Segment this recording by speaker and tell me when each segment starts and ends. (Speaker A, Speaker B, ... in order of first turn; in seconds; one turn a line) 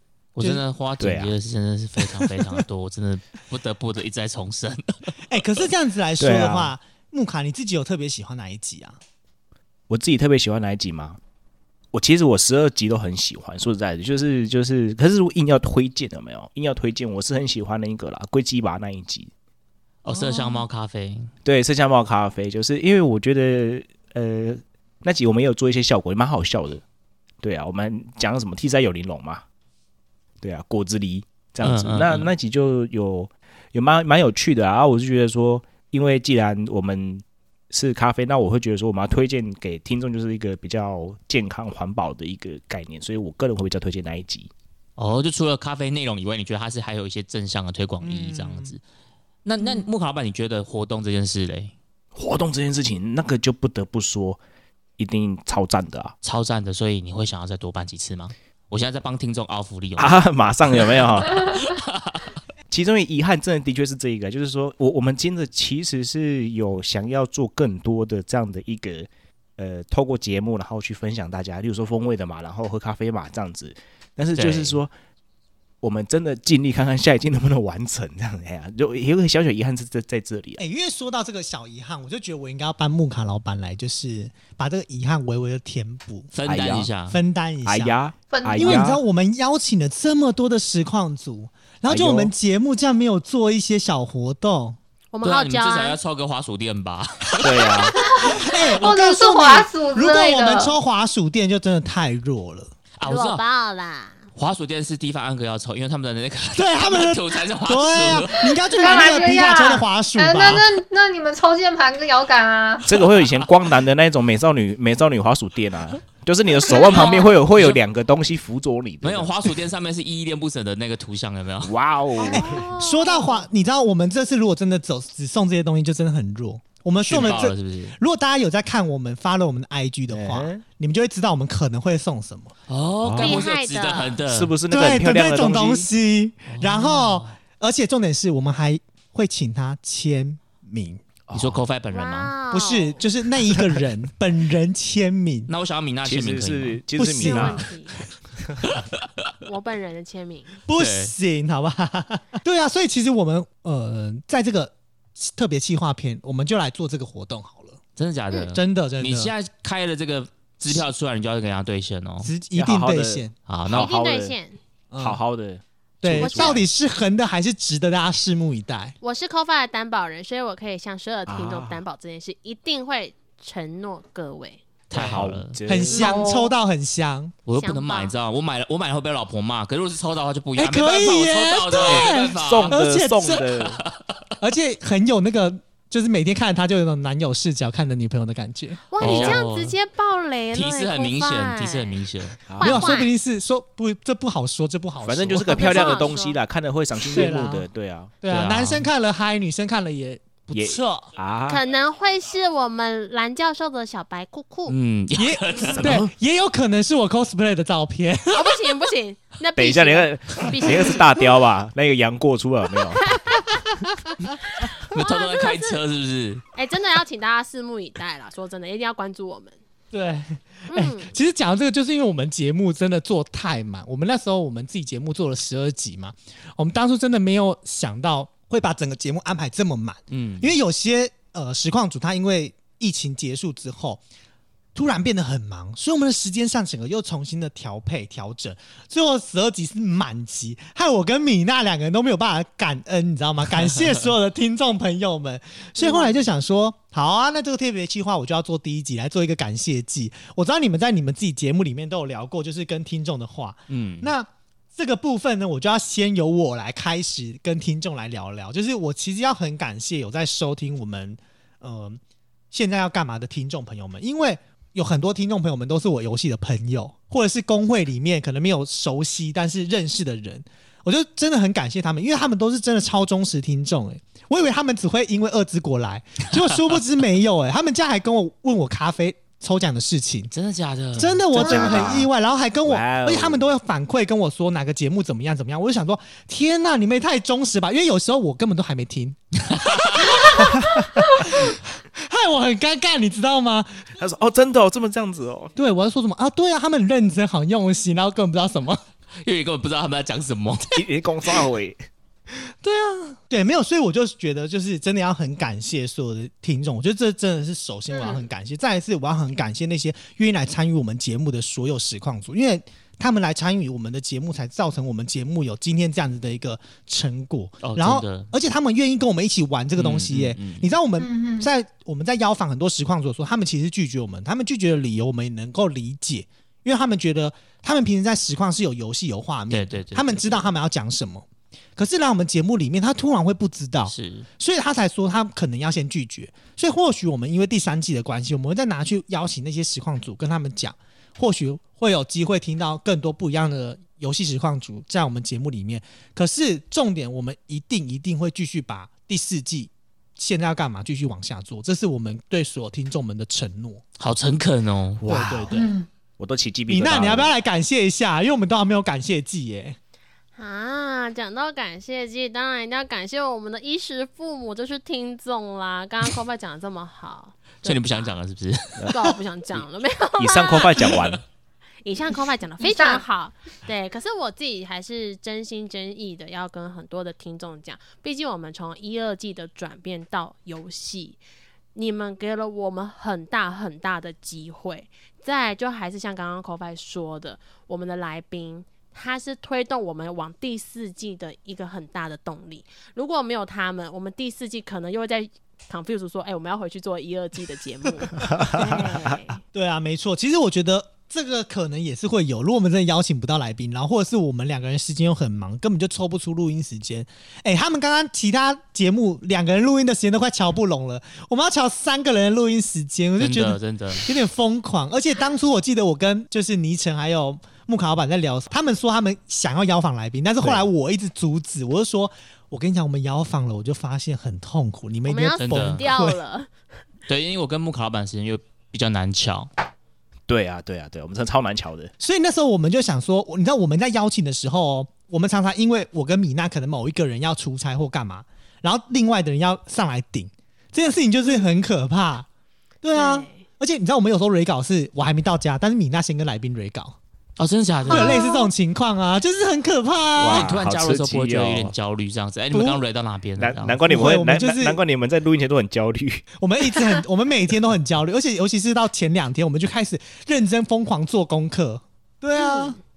Speaker A: 0.4-5.2
Speaker B: 1.0-1.3
Speaker C: 5.3-9.0
Speaker B: 6.2-6.7
Speaker B: 9.9-11.2
Speaker B: 11.9-19.3
Speaker A: 20.1-21.3
Speaker C: 20.1-20.6
Speaker B: 21.4-26.8
Speaker B: 27.4-29.4
Speaker B: 30.4-44.5
Speaker A: 31.6-32.3
Speaker A: 45.0-48.8
Speaker C: 48.0-48.7
Speaker A: 49.5-51.7
Speaker B: 52.1-54.4
Speaker B: 55.0-56.1
Speaker A: 56.2-62.3
Speaker B: 60.0-61.5
Speaker B: 62.7-74.9
Speaker A: 74.3-74.8
Speaker B: 75.8-80.6
Speaker C: 80.6-86.3
Speaker A: 86.3-87.2
Speaker B: 86.5-86.9
Speaker C: 87.1-88.0
Speaker B: 87.7-89.0
Speaker D: 88.3-88.9
Speaker C: 88.6-94.8
Speaker B: 91.9-92.3
Speaker E: 95.1-96.0
Speaker A: 95.2-98.3
Speaker B: 97.4-98.0
Speaker D: 97.9-100.8
Speaker C: 98.2-102.7
Speaker A: 103.0-103.4
Speaker E: 103.0-104.3
Speaker A: 104.3-109.2
Speaker C: 106.5-110.7
Speaker D: 108.8-112.9
Speaker B: 112.8-119.5
Speaker A: 116.7-117.8
Speaker E: 116.8-117.3
Speaker A: 119.0-121.7
Speaker B: 121.6-122.6
Speaker E: 122.2-123.5
Speaker C: 122.3-132.5
Speaker A: 127.0-128.0
Speaker B: 130.1-130.7
Speaker A: 132.7-134.5
Speaker B: 133.0-133.4
Speaker E: 133.2-134.2
Speaker B: 134.3-135.9
Speaker C: 134.7-141.0
Speaker A: 136.5-137.3
Speaker B: 141.3-141.6
Speaker A: 141.3-142.3
Speaker E: 141.9-143.0
Speaker C: 142.5-145.5
Speaker A: 145.5-146.8
Speaker B: 146.0-147.6
Speaker C: 146.9-147.6
Speaker E: 147.2-148.0
Speaker A: 148.6-149.3
Speaker E: 149.4-150.6
Speaker C: 150.7-157.8
Speaker A: 150.8-151.1
Speaker A: 158.0-162.3
Speaker C: 158.5-159.3
Speaker C: 162.2-163.3
Speaker B: 162.6-164.4
Speaker A: 163.5-163.9
Speaker E: 163.7-164.6
Speaker C: 164.9-165.2
Speaker B: 165.0-166.7
Speaker C: 166.0-168.9
Speaker E: 166.2-166.6
Speaker E: 169.0-174.7
Speaker B: 171.3-171.8
Speaker A: 174.9-175.6
Speaker B: 174.9-176.3
Speaker C: 175.7-177.3
Speaker D: 175.9-176.5
Speaker A: 177.5-184.1
Speaker E: 177.5-178.2
Speaker C: 180.6-183.4
Speaker B: 181.8-183.8
Speaker C: 184.4-189.4
Speaker E: 188.9-193.1
Speaker A: 189.0-189.8
Speaker A: 190.5-192.4
Speaker B: 192.5-192.9
Speaker C: 192.6-196.1
Speaker B: 195.0-198.2
Speaker E: 195.5-196.4
Speaker C: 197.0-197.7
Speaker C: 198.2-201.1
Speaker A: 198.3-198.9
Speaker B: 200.5-201.6
Speaker E: 201.5-204.8
Speaker A: 204.7-206.0
Speaker C: 205.2-208.6
Speaker B: 205.6-206.1
Speaker E: 208.3-211.1
Speaker B: 209.6-213.3
Speaker E: 213.1-213.4
Speaker E: 214.6-215.8
Speaker A: 214.9-216.4
Speaker E: 216.5-219.6
Speaker C: 219.9-234.0
Speaker E: 220.7-221.1
Speaker A: 230.1-230.6
Speaker C: 234.8-262.0
Speaker E: 245.8-246.2
Speaker A: 253.7-254.1
Speaker C: 262.5-280.3
Speaker A: 280.3-281.2
Speaker C: 281.0-289.2
Speaker B: 281.3-282.1
Speaker D: 281.4-281.9
Speaker B: 282.6-283.5
Speaker A: 289.5-290.4
Speaker C: 289.9-293.9
Speaker B: 294.0-295.5
Speaker C: 295.6-298.8
Speaker A: 299.2-300.9
Speaker B: 300.7-301.8
Speaker C: 302.6-353.8
Speaker A: 317.6-318.3
Speaker A: 319.8-320.7
Speaker D: 321.0-321.5
Speaker A: 329.5-330.5
Speaker A: 333.9-334.3
Speaker A: 354.0-355.1
Speaker B: 355.0-355.6
Speaker C: 355.1-355.7
Speaker D: 355.5-355.9
Speaker B: 356.2-357.3
Speaker C: 356.7-359.8
Speaker E: 360.4-368.1
Speaker A: 367.6-368.9
Speaker E: 368.9-371.0
Speaker B: 370.2-371.2
Speaker E: 371.8-381.2
Speaker D: 372.6-373.0
Speaker E: 381.7-399.4
Speaker B: 398.2-399.1
Speaker C: 399.4-426.2
Speaker A: 413.2-414.1
Speaker E: 425.1-426.5
Speaker A: 425.4-425.9
Speaker A: 427.1-429.5
Speaker B: 430.3-431.9
Speaker C: 432.0-442.3
Speaker C: 442.8-447.0
Speaker E: 442.9-443.4
Speaker A: 447.4-448.2
Speaker C: 447.9-450.5
Speaker D: 447.9-448.5
Speaker B: 450.2-451.7
Speaker A: 450.3-453.8
Speaker C: 452.5-452.8
Speaker B: 453.4-456.4
Speaker C: 453.9-454.8
Speaker C: 456.4-462.8
Speaker E: 462.4-462.8